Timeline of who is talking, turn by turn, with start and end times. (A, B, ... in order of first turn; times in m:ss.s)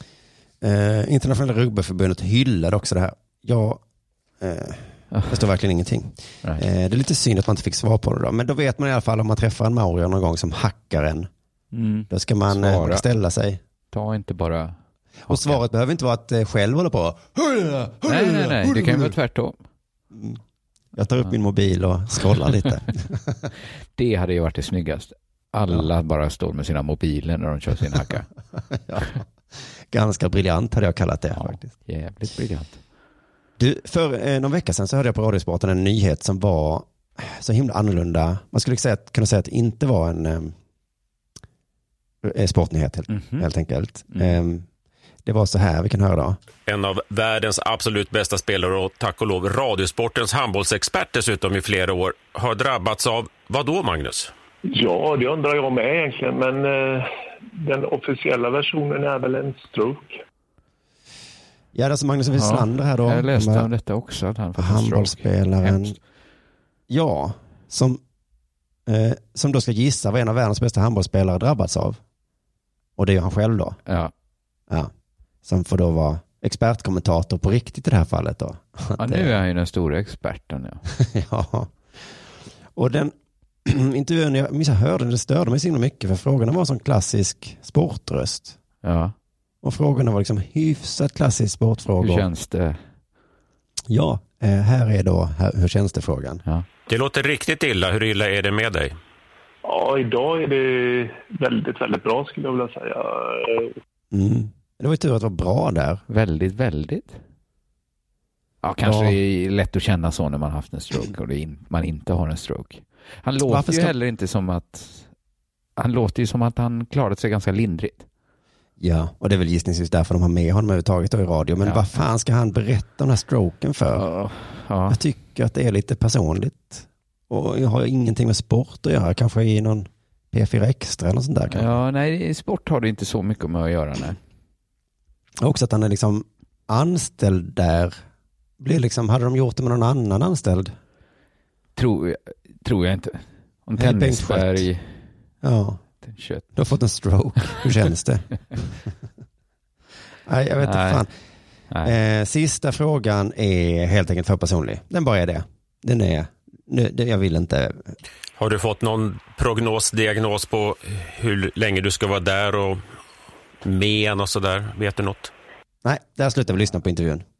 0:00.6-0:03.8 A
0:04.4-0:11.3 A
0:05.1-0:05.4 B
0:11.7-0:13.0 B
0:12.1-0:13.6 A
0:13.9-0:14.8 B
0:15.3-0:19.1 A
0:15.3-0:15.6 B
0:18.0-0:19.6 B
0:20.1-0:20.4 A
0:21.0-0:23.4 A
0:24.0-0:28.2 B
0:28.7-0:31.7 A
0:31.3-0:32.8 B
0:33.6-0:40.5 A
0:42.2-0:44.7 A
0:43.1-0:43.5 B
0:44.1-0:44.4 B
0:45.2-0:46.4 A
0:46.6-0:54.3 C
0:54.7-1:00.2 D
1:01.7-1:03.7 A
1:02.3-1:05.9 B
1:04.6-1:06.0 A
1:06.9-1:08.0 A
1:08.8-1:12.0 A
1:13.0-1:13.8 A
1:13.8-1:14.1 B
1:15.4-1:19.3 A
1:19.0-1:20.8 B
1:20.9-1:21.7 A
1:22.7-1:28.6 A
1:28.8-1:29.1 B
1:29.6-1:32.3 A
1:32.0-1:32.8 B
1:33.9-1:36.4 A
1:36.9-1:38.9 C
1:39.6-1:43.8 D
1:44.1-1:46.0 A
1:46.1-1:47.2 B
1:48.6-1:55.1 B
1:48.8-1:49.2 A
1:53.4-1:53.9 A
1:55.8-1:58.0 B
1:58.8-2:04.1 A
2:01.6-2:01.9 B
2:03.9-2:05.0 B
2:04.9-2:11.8 A
2:11.5-2:14.2 B
2:15.4-2:18.0 A
2:18.6-2:20.8 A
2:21.8-2:24.9 B
2:23.8-2:24.6 A
2:25.4-2:25.8 A
2:26.0-2:26.4 B
2:26.6-2:28.7 A
2:30.2-2:31.1 A
2:30.6-2:31.0 B
2:31.7-2:32.0 B
2:31.8-2:38.0 A
2:38.4-2:42.8 C
2:43.6-2:45.3 C
2:45.8-2:47.2 A